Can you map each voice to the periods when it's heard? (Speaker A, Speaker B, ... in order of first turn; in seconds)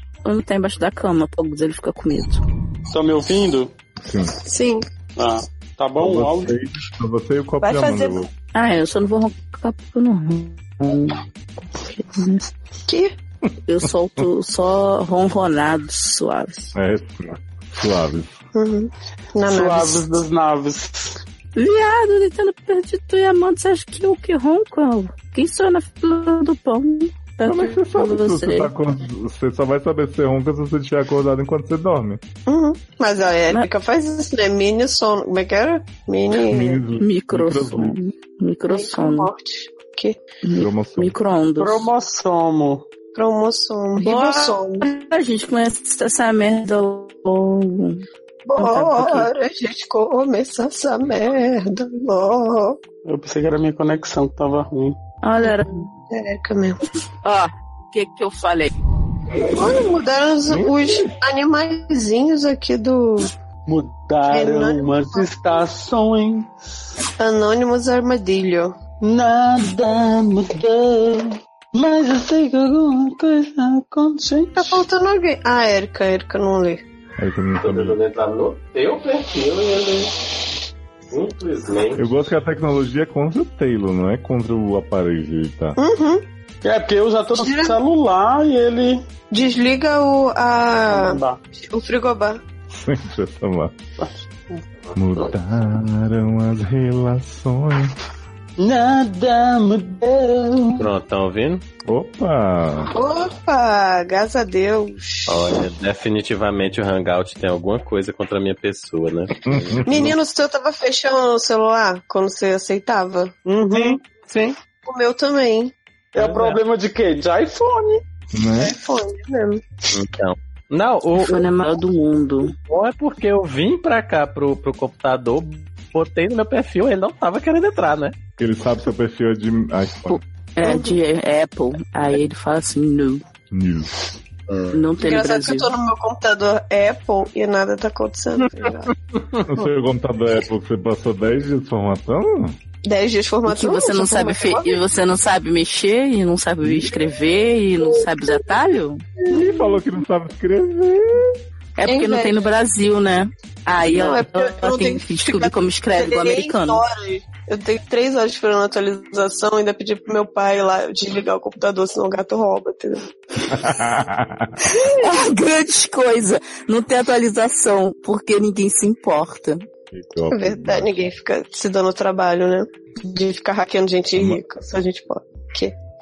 Speaker A: 0.2-2.4, 8.5-12.4, 13.7-16.7, 21.6-28.7, 37.0-39.3, 40.4-41.9, 44.0-48.0, 48.5-49.3, 55.2-55.8, 57.2-58.7, 121.3-122.5, 130.1-133.2, 134.7-135.7, 143.5-149.0, 151.8-156.8, 164.7-169.7
Speaker B: 2.9-3.7, 5.2-6.5, 19.4-21.2, 41.6-42.9, 53.0-55.0, 63.7-66.5, 69.0-74.8, 86.6-89.0, 90.9-91.4, 94.0-94.6, 98.6-100.9, 113.7-114.5, 116.1-118.0
Speaker C: 4.0-4.3, 6.0-8.3, 13.8-14.3, 16.8-18.4, 27.4-32.2, 36.3-38.0, 40.5-41.1, 77.2-78.0, 81.9-85.8, 92.7-93.7, 94.9-98.0, 101.8-102.9, 109.4-110.2, 118.3-118.7, 128.4-130.2, 133.5-133.9, 139.4-142.6, 146.6-146.9, 149.3-151.3, 163.5-164.6, 169.9-171.0
Speaker D: 4.4-4.8, 7.6-8.2, 12.9-13.1, 18.5-20.0, 32.5-36.8, 38.7-40.2, 43.1-44.9, 48.5-52.8, 55.4-56.8, 59.5-63.3, 64.3-65.6, 67.2-68.7, 74.5-76.8, 85.8-86.2, 87.4-87.8, 89.3-92.4, 102.9-105.6, 109.8-114.0, 114.8-115.7, 118.5-119.6, 130.6-131.0, 135.0-138.9, 142.8-144.8, 147.8-148.6, 149.2-149.8, 151.8-152.5, 153.8-163.0, 164.7-165.2, 170.3-175.7
Speaker E: 77.6-80.1, 81.1-82.0, 100.8-101.6, 105.3-109.8, 116.2-116.4, 119.9-121.4, 122.6-128.1, 134.5-134.8